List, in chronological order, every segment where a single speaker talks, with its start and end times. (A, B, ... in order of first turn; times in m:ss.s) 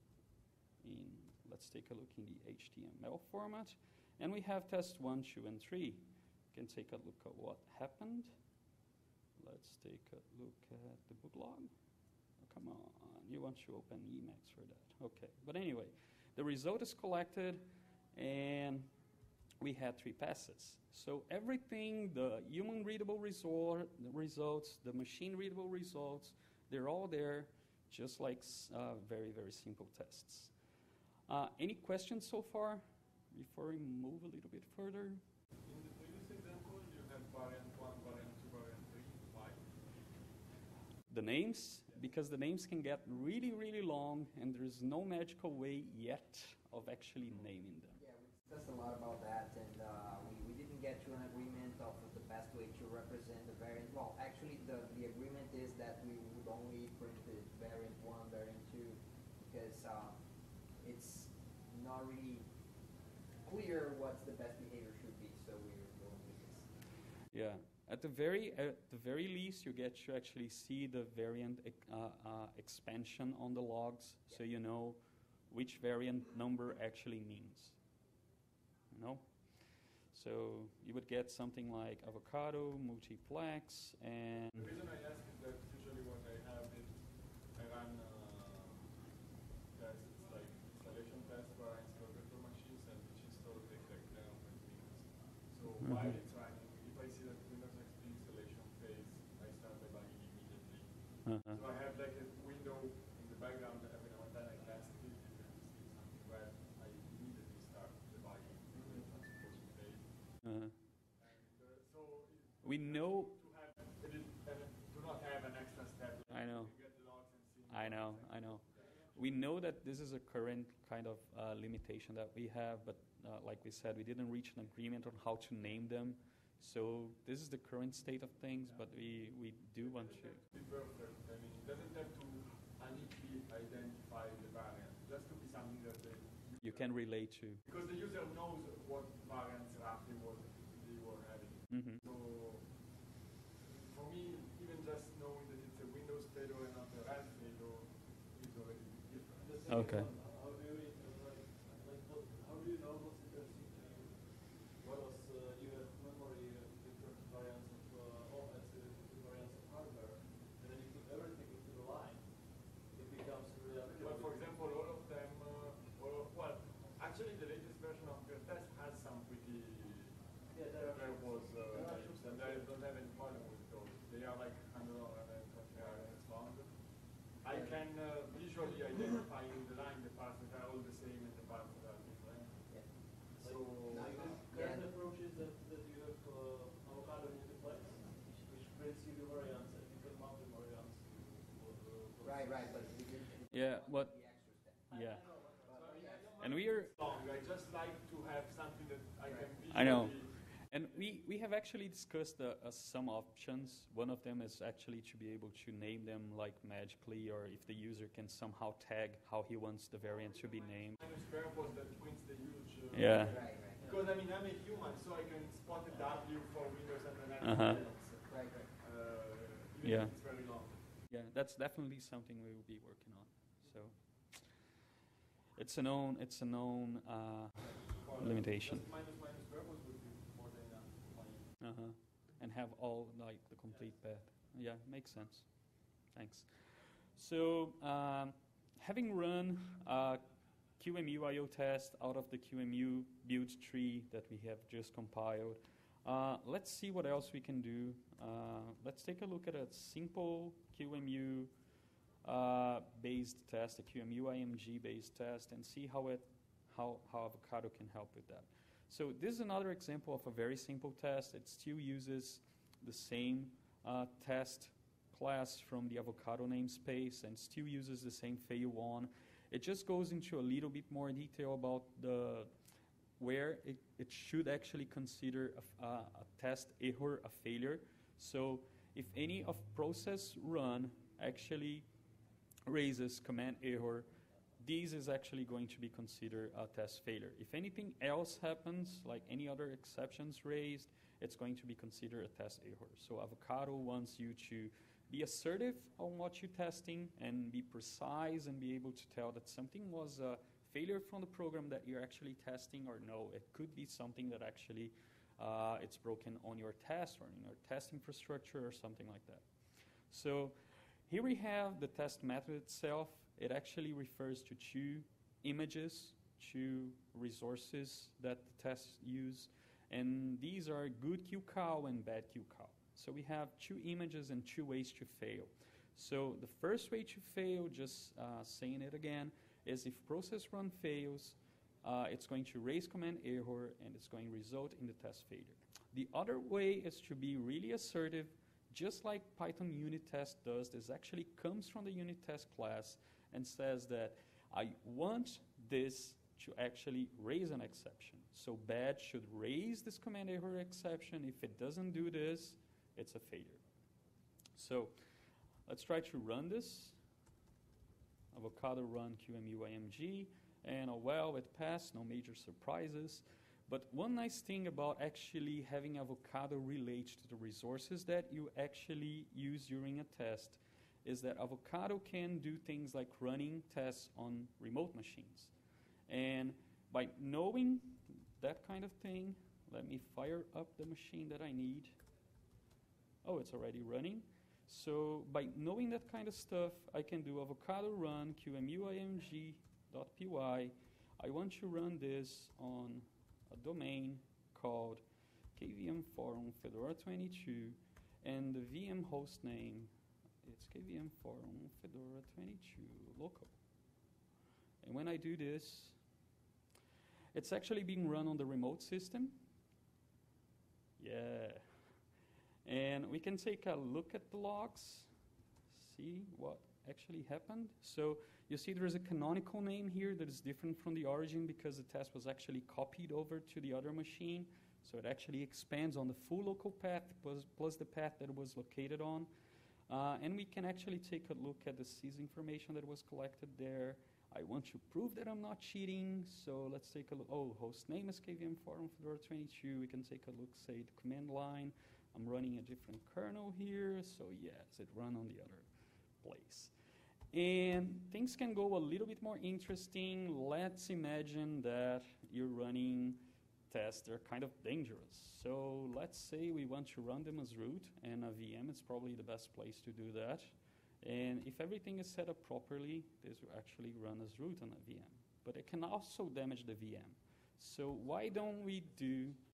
0:00.8-0:08.3 A
0:09.4-0:11.7 A
0:12.4-0:18.9 A
0:19.6-0:30.5 A
0:31.3-0:35.2 A
0:35.6-0:39.6 B
0:41.1-0:48.0 A
0:48.0-1:00.2 C
1:00.8-1:02.5 C
1:03.4-1:06.7 C
1:07.3-1:17.8 A
1:18.9-1:24.6 A
1:24.5-1:29.0 B
1:29.7-1:50.4 B
1:35.8-1:36.1 A
1:41.2-1:41.6 A
1:50.4-1:50.7 A
1:51.2-1:59.1 B
1:52.6-1:53.3 A
1:56.3-1:56.7 A
1:57.7-2:10.4 A
2:09.8-2:17.0 B
2:16.6-2:17.6 A
2:17.6-2:23.0 B
2:21.7-2:22.0 A
2:23.7-2:29.9 B
2:29.3-2:44.4 D
2:29.7-2:30.1 A
2:44.0-3:04.4 B
2:50.5-2:52.7 D
2:57.5-2:57.8 C
3:03.4-3:13.0 D
3:03.9-3:04.9 C
3:12.2-3:15.1 C
3:13.5-3:14.2 A
3:14.9-3:15.2 A
3:15.6-3:20.4 B
3:15.6-3:16.3 C
3:15.7-3:16.2 D
3:16.4-3:16.9 A
3:19.7-3:31.0 A
3:30.2-3:40.9 B
3:32.9-3:33.4 A
3:33.3-3:33.8 C
3:37.4-3:37.8 A
3:37.8-3:38.7 C
3:39.8-3:40.1 A
3:41.1-3:44.6 A
3:45.6-3:48.8 A
3:47.6-3:51.5 B
3:51.6-3:55.5 A
3:56.1-4:00.2 A
4:00.8-4:11.5 A
4:12.2-4:32.5 A
4:33.2-4:41.9 A
4:42.7-4:44.1 A
4:44.6-5:09.5 A
5:10.1-5:53.6 A
5:54.6-5:54.9 A
5:55.7-5:57.0 A
5:58.3-6:15.5 A
6:16.1-6:22.0 A
6:23.2-6:35.0 A
6:35.6-6:39.9 A
6:40.4-6:43.6 A
6:44.8-6:46.0 A
6:47.3-6:49.4 A
6:51.0-6:51.6 A
6:52.6-6:55.1 A
6:55.7-7:09.3 A
7:09.9-7:25.7 A
7:26.2-7:26.7 A
7:27.3-7:49.4 A